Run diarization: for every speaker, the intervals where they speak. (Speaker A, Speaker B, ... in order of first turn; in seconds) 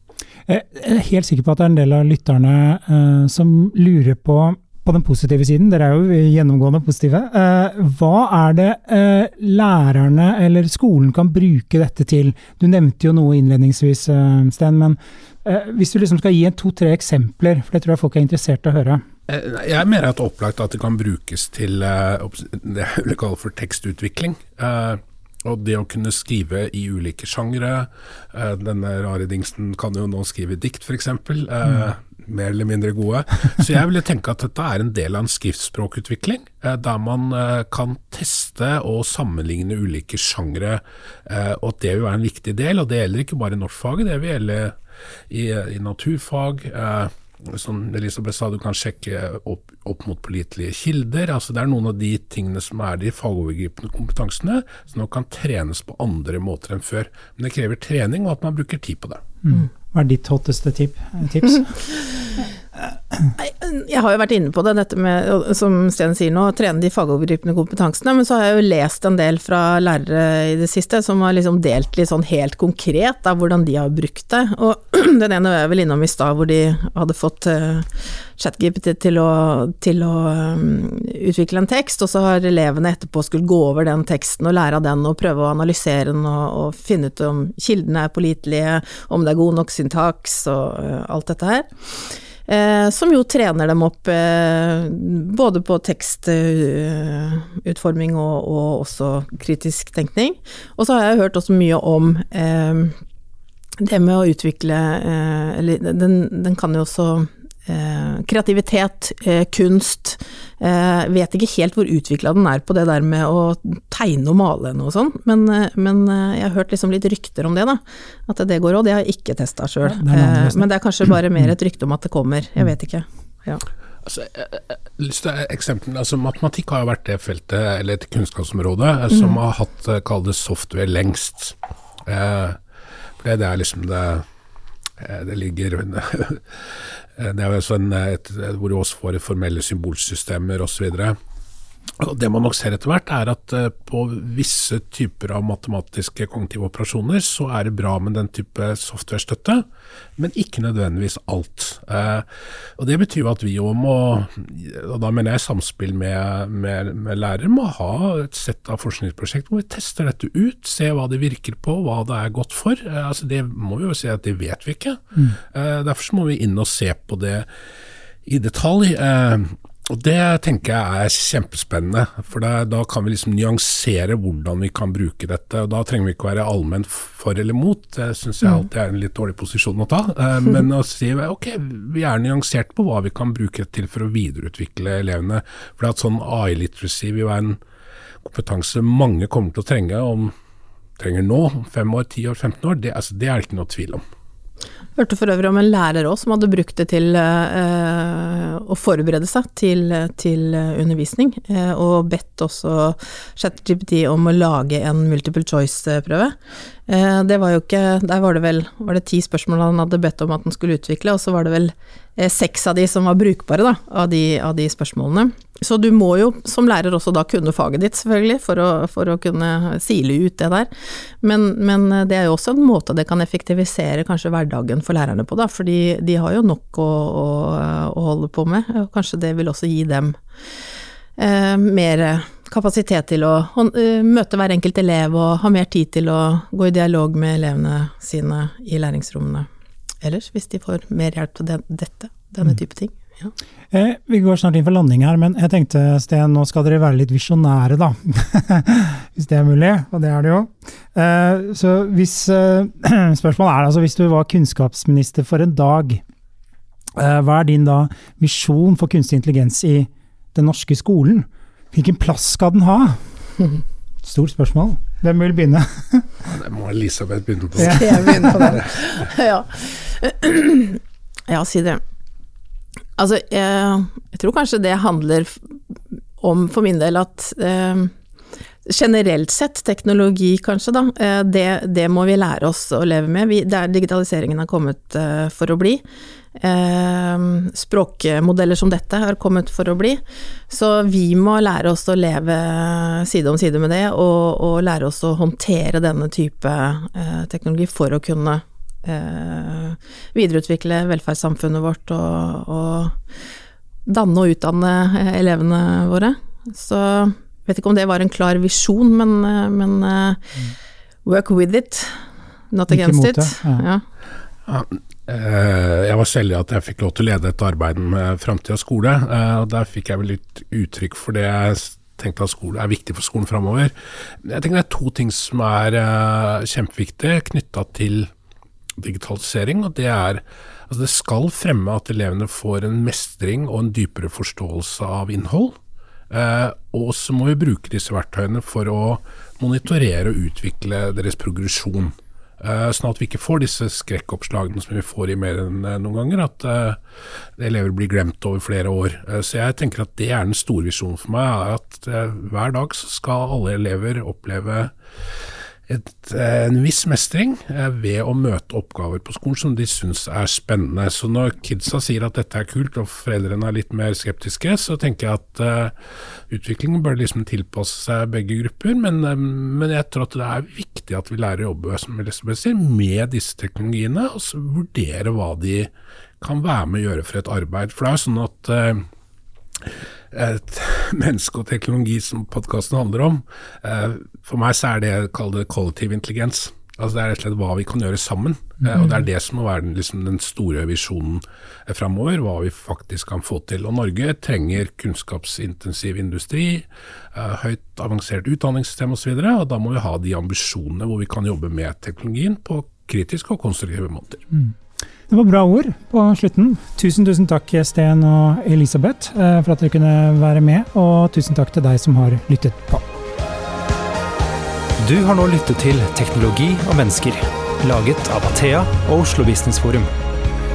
Speaker A: 0.5-19.0, 59.4-61.7, 119.8-120.6, 243.7-256.0, 256.9-263.0, 264.0-266.1, 267.6-268.5, 312.7-313.6, 405.1-412.8
Speaker B: 19.3-44.8, 45.3-59.2, 124.0-132.6, 133.2-134.2, 135.0-141.2, 142.0-149.6, 150.2-152.2, 152.8-167.5, 168.2-187.6, 188.2-190.3, 191.0-194.0, 266.3-268.7, 314.5-328.1, 328.8-335.6, 336.1-346.8, 347.4-354.7, 355.7-365.8, 366.3-378.9, 379.6-404.2
Speaker C: 63.4-103.0, 103.8-123.6, 129.1-129.4, 194.9-206.3, 206.9-230.2, 231.2-239.5, 240.0-243.3, 267.6-271.8, 273.0-275.4, 276.2-277.9, 278.6-285.8, 286.4-303.0, 303.9-310.4, 311.0-312.0, 312.5-313.8
Speaker D: 414.8-419.9